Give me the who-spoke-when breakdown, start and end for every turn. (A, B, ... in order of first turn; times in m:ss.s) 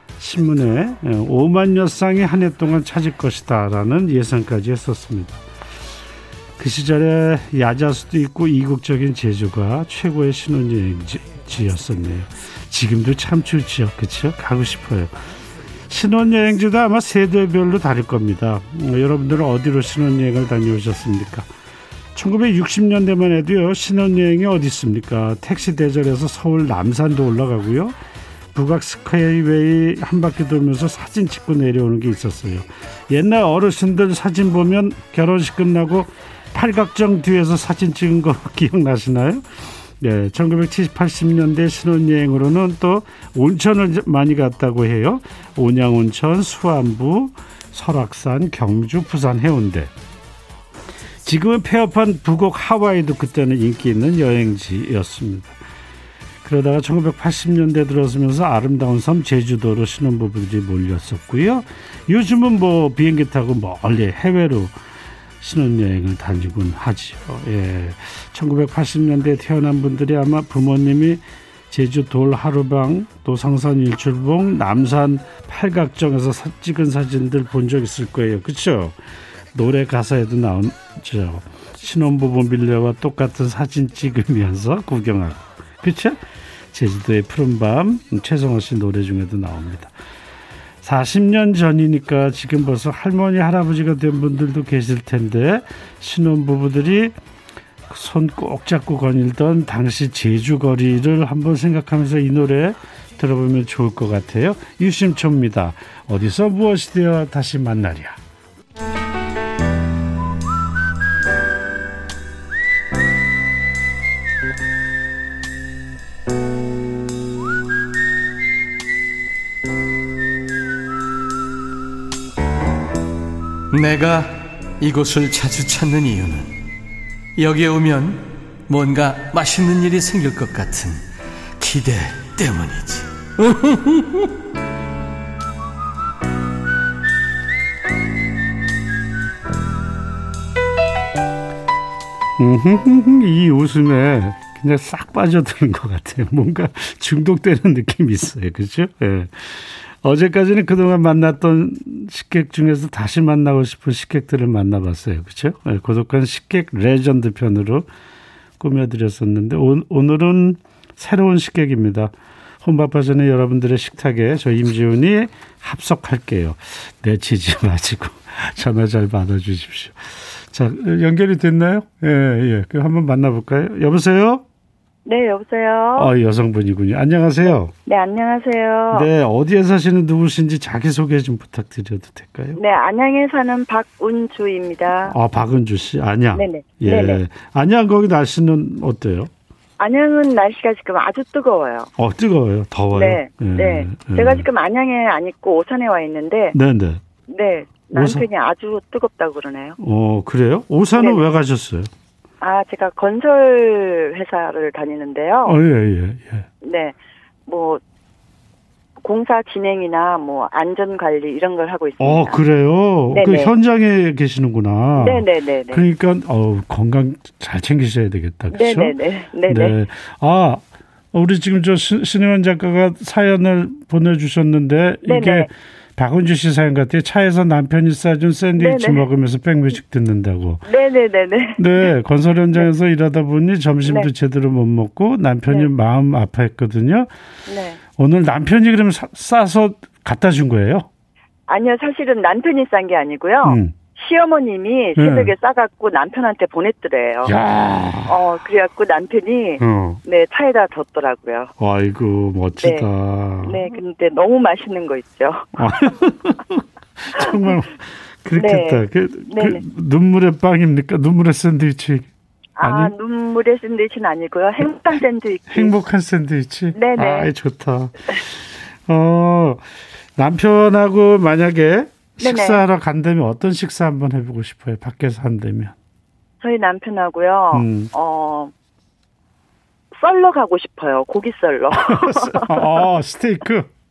0:00.2-0:05.4 A
0:06.6-0:15.2 A
0:15.9-0:21.5 A
0:22.2-0:28.0 A
0:28.5-0:39.5 A
0:40.0-0:49.9 A
0:51.2-0:55.6 A
0:56.4-1:04.8 A
1:05.4-1:19.0 A
1:19.5-1:29.9 A
1:30.8-1:37.2 A
1:37.9-1:48.2 A
2:03.7-2:06.5 B
2:07.4-2:11.0 B
2:11.6-2:14.3 B
2:22.4-2:37.9 A
2:38.6-2:54.4 A
2:55.1-2:56.1 C
2:56.0-2:57.7 A
2:57.8-2:59.1 C
2:58.9-3:02.6 A
3:02.6-3:05.2 C
3:05.0-3:09.3 A
3:06.3-3:07.2 C
3:09.8-3:11.9 C
3:12.0-3:14.5 A
3:12.9-3:16.6 C
3:16.5-3:17.0 A
3:17.3-3:19.8 C
3:17.9-3:18.3 A
3:19.8-3:21.9 A
3:21.0-3:21.2 C
3:22.4-3:25.6 C
3:25.4-3:26.5 A
3:26.6-3:27.0 C
3:27.5-3:27.8 C
3:29.0-3:32.4 C
3:32.0-3:39.0 A
3:33.1-3:33.5 C
3:35.0-3:35.8 C
3:38.5-3:39.8 C
3:39.5-3:40.6 A
3:41.1-3:50.6 A
3:45.0-3:45.5 C
3:48.6-3:49.0 C
3:50.7-3:51.9 C
3:51.6-3:57.1 A
3:57.5-3:57.8 C
3:58.0-4:00.9 A
4:01.5-4:07.3 C
4:03.4-4:03.8 A
4:05.0-4:05.3 A
4:07.2-4:08.3 A
4:08.1-4:11.5 C
4:09.6-4:10.0 A
4:11.6-4:13.7 A
4:12.6-4:12.9 C
4:13.4-4:15.6 C
4:15.6-4:22.1 A
4:18.4-4:19.6 C
4:22.6-4:25.7 C
4:22.6-4:22.9 A
4:25.5-4:29.6 A
4:26.8-4:27.3 C
4:30.2-4:35.8 A
4:32.2-4:32.6 C
4:36.4-4:38.5 C
4:37.5-4:37.9 A
4:40.0-4:42.7 C
4:41.7-4:43.7 A